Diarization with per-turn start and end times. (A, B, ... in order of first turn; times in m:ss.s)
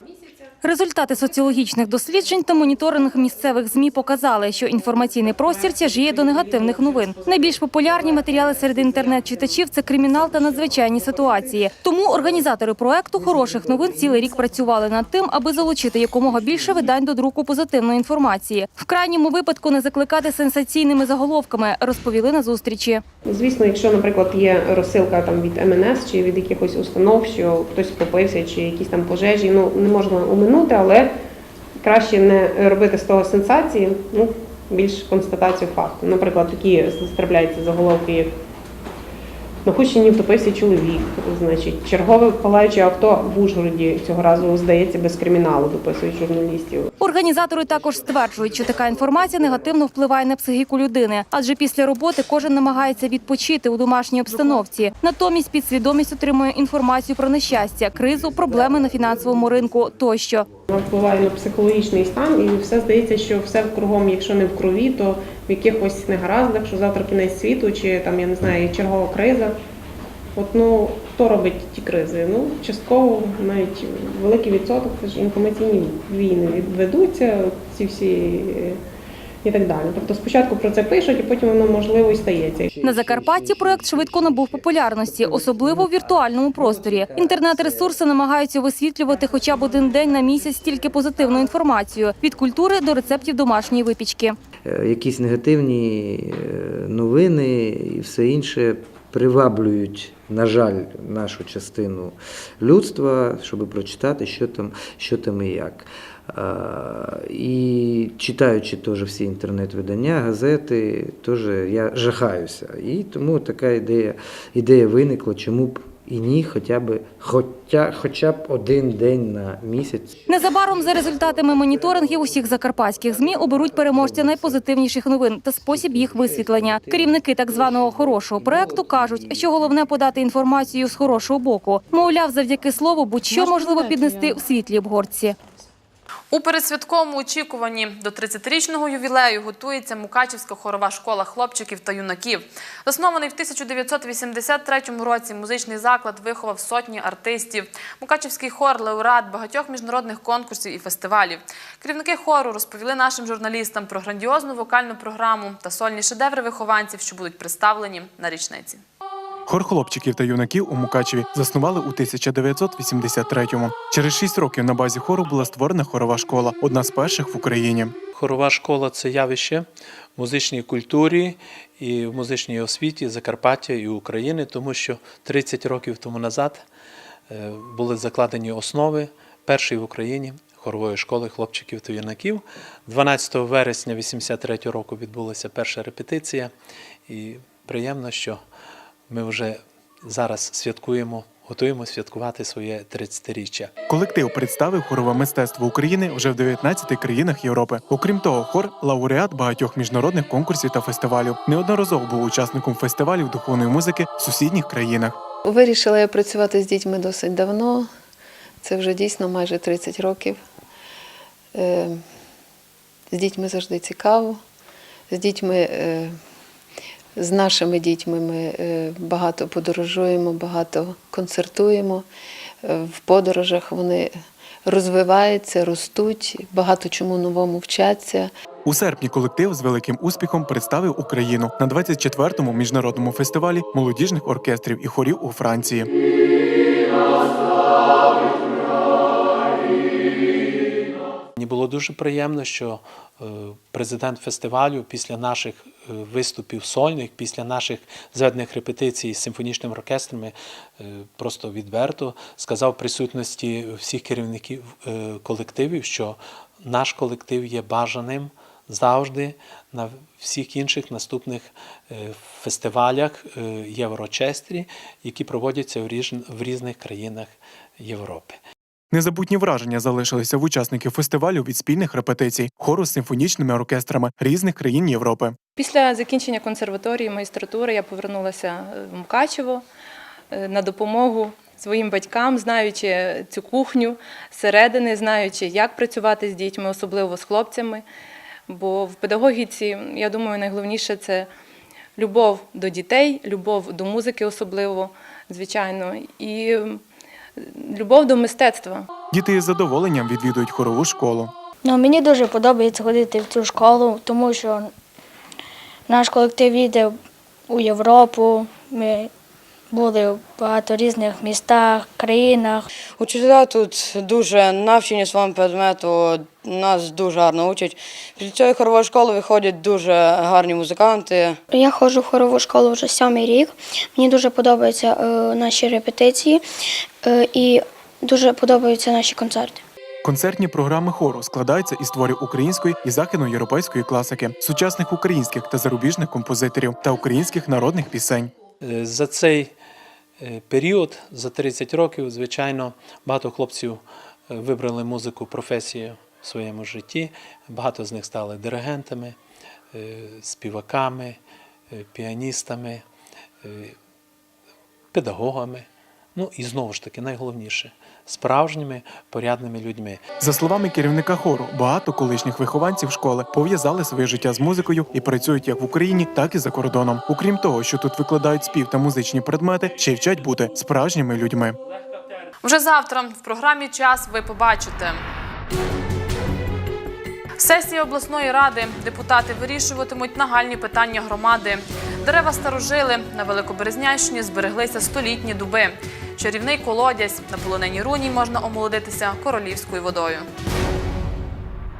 0:00.6-0:23.0 A
0:23.3-0:31.1 B
0:31.8-0:38.4 B
0:39.6-0:46.9 B
0:47.0-1:00.5 A
1:00.7-1:09.6 B
1:10.4-1:18.8 B
1:19.4-1:22.7 B
1:22.7-1:27.9 C
1:22.8-1:34.4 A
1:34.6-2:00.3 C
2:00.3-2:15.4 A
2:04.0-2:04.5 C
2:05.7-2:07.2 C
2:08.2-2:09.2 C
2:16.3-2:38.8 D
2:39.5-2:48.0 E
2:48.1-2:56.6 F
2:57.3-3:06.5 F
3:07.1-3:08.4 F
3:09.1-3:13.7 F
3:13.9-3:25.2 E
3:25.4-3:27.9 G
3:28.6-3:30.4 G
3:31.5-3:32.0 G
3:33.1-3:34.4 G
3:35.1-3:36.2 G
3:37.2-3:42.1 G
3:42.6-3:48.3 G
3:48.6-3:55.9 E
4:01.4-4:28.4 F
4:28.9-4:35.4 E
4:35.6-4:39.6 H
4:40.3-4:47.8 H
4:48.5-4:51.3 H
4:52.0-4:56.8 H
4:57.4-4:58.9 H
4:59.1-5:01.3 E
5:01.6-5:04.7 I
5:05.9-5:07.0 I
5:07.5-5:09.1 I
5:09.7-5:12.6 I
5:13.0-5:21.4 J
5:21.5-5:26.4 I
5:27.0-5:29.6 I
5:30.0-5:38.3 E
5:38.6-5:39.5 F
5:40.2-5:49.2 F
5:49.7-5:51.2 F
5:51.7-5:52.8 F
5:53.4-5:53.8 F
5:54.9-6:00.0 F
6:00.2-6:11.6 E
6:12.4-6:15.0 D
6:17.4-6:30.3 D